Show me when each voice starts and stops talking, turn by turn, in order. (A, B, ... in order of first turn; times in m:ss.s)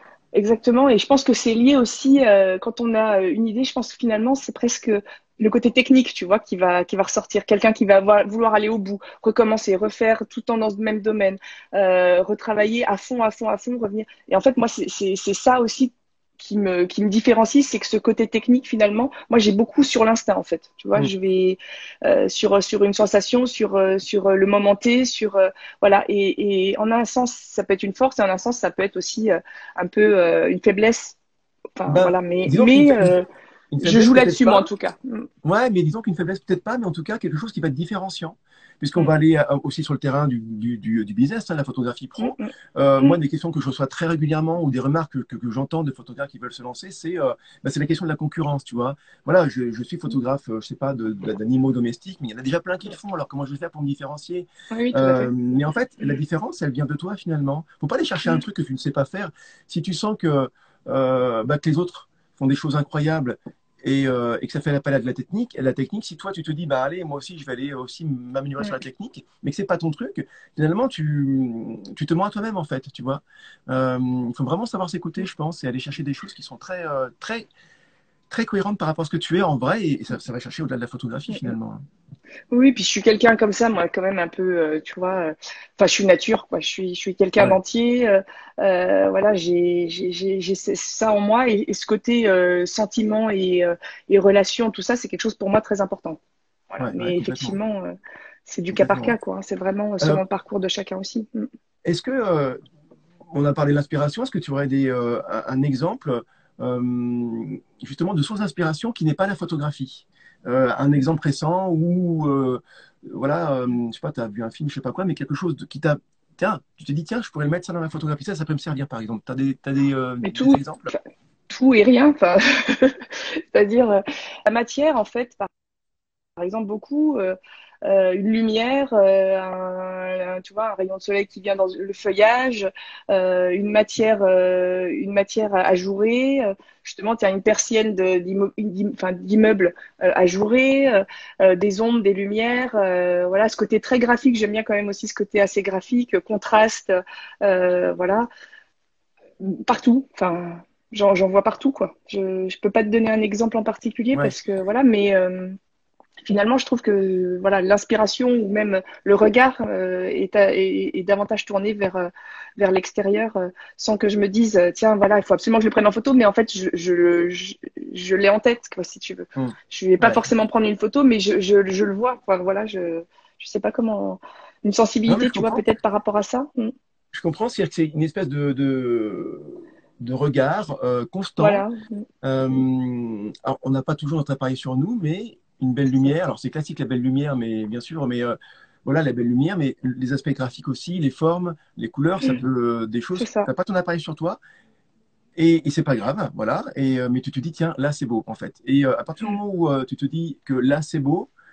0:00.3-0:31.2 A
0:31.8-0:33.3 A
0:31.9-0:33.2 B
0:33.7-0:34.7 B
0:33.8-0:35.3 A
0:35.4-1:17.5 B
0:42.2-0:42.5 A
0:54.7-0:55.3 A
1:18.3-1:21.8 B
1:22.5-1:36.2 A
1:36.7-1:38.0 A
1:36.8-1:37.6 B
1:38.5-1:41.5 A
1:38.7-1:39.1 B
1:41.8-1:42.6 B
1:43.3-2:00.9 B
2:00.2-2:00.9 A
2:01.5-2:05.5 A
2:06.4-2:28.3 A
2:29.4-2:35.6 A
2:36.2-2:56.7 A
2:49.4-2:50.2 B
2:55.1-2:55.6 B
2:57.1-3:01.6 B
3:01.4-3:02.0 A
3:02.2-3:14.4 B
3:13.2-3:13.5 A
3:15.4-3:21.3 B